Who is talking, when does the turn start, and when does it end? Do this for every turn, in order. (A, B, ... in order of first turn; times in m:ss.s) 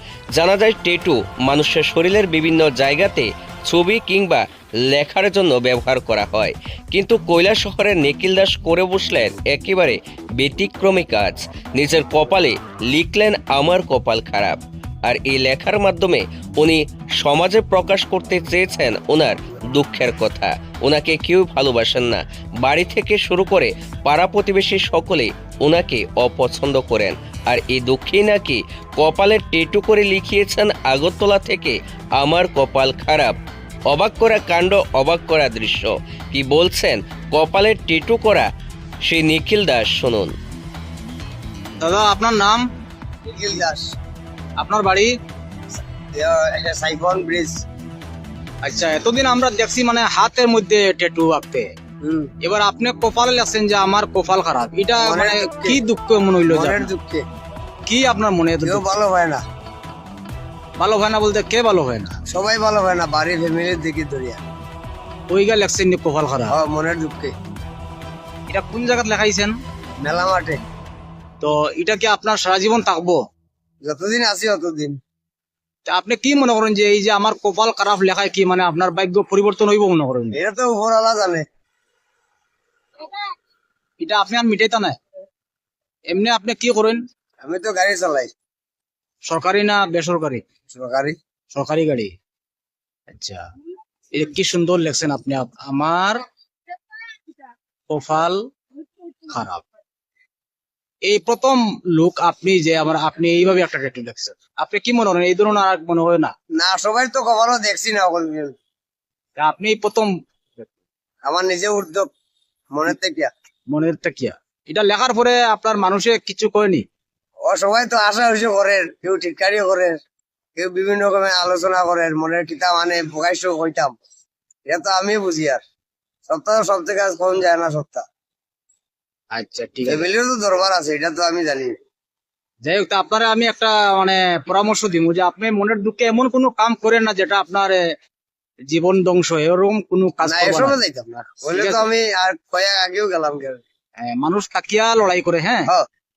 0:00.4-0:33.3 A
0:33.9-0:38.5 A
0:39.0-0:40.3 A
0:41.8-0:42.6 B
0:43.3-0:43.9 C
0:44.6-0:45.1 B
0:46.1-0:47.6 C
0:48.6-0:51.7 B
0:52.0-0:52.3 C
0:52.4-0:56.9 B
0:55.0-0:55.8 C
0:56.5-0:57.2 C
0:57.9-0:58.8 B
0:58.6-0:59.4 C
1:00.8-1:02.2 B
1:02.3-1:04.4 C
1:05.3-1:06.6 B
1:06.5-1:07.3 C
1:08.5-1:09.6 B
1:10.0-1:10.6 C
1:11.4-1:13.2 B
1:13.8-1:15.0 C
1:15.9-1:20.4 B
1:20.3-1:21.4 C
1:24.0-1:25.0 B
1:26.1-1:27.0 B
1:27.4-1:28.3 C
1:29.3-1:30.4 B
1:30.7-1:31.2 C
1:31.5-1:32.1 B
1:33.1-1:33.4 B
1:34.1-1:36.2 B
1:37.9-1:38.4 B
1:39.3-1:39.6 B
1:41.0-1:46.3 B
1:46.6-1:48.5 C
1:49.4-1:50.6 B
1:51.2-1:52.1 C
1:52.7-1:53.3 C
1:53.7-1:56.8 B
1:57.4-2:00.0 C
2:00.6-2:04.0 C
2:04.6-2:05.6 C
2:06.3-2:08.0 C
2:09.3-2:10.1 B
2:09.8-2:11.7 C
2:12.6-2:17.8 B
2:18.7-2:20.8 B
2:20.2-2:23.6 C
2:21.5-2:21.9 B
2:24.1-2:25.7 B